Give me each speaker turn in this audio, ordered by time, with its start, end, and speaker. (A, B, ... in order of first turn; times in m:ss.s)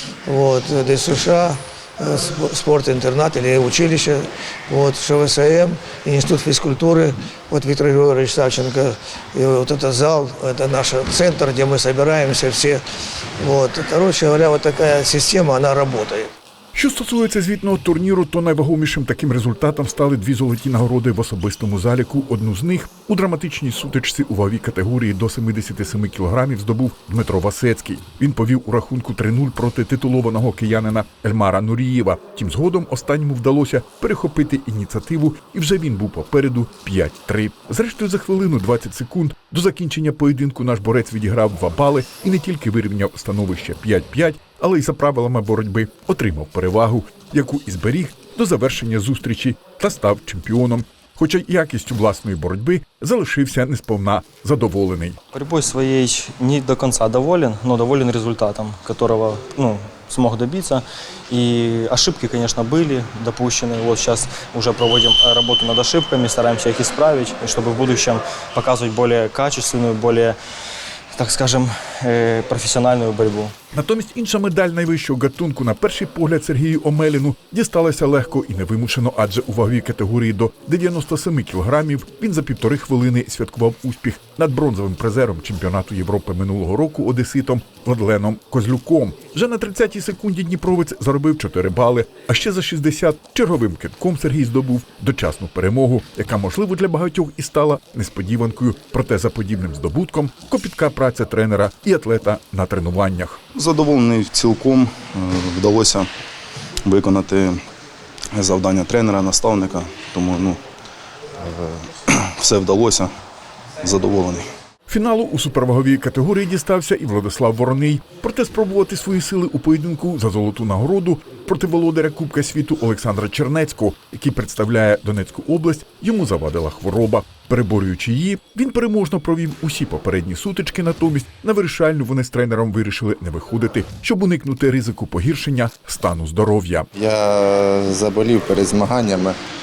0:00.2-0:12.8 A
0:13.4-0:16.3 A
0:16.7-0:55.2 B
0:55.3-1:10.4 C
1:11.1-1:13.5 C
1:13.7-1:43.4 B
1:43.5-1:46.1 D
1:46.8-1:47.6 D
1:48.3-1:50.6 D
1:51.4-1:53.1 D
1:53.8-1:54.5 D
1:54.9-2:16.9 B
2:16.9-2:19.4 E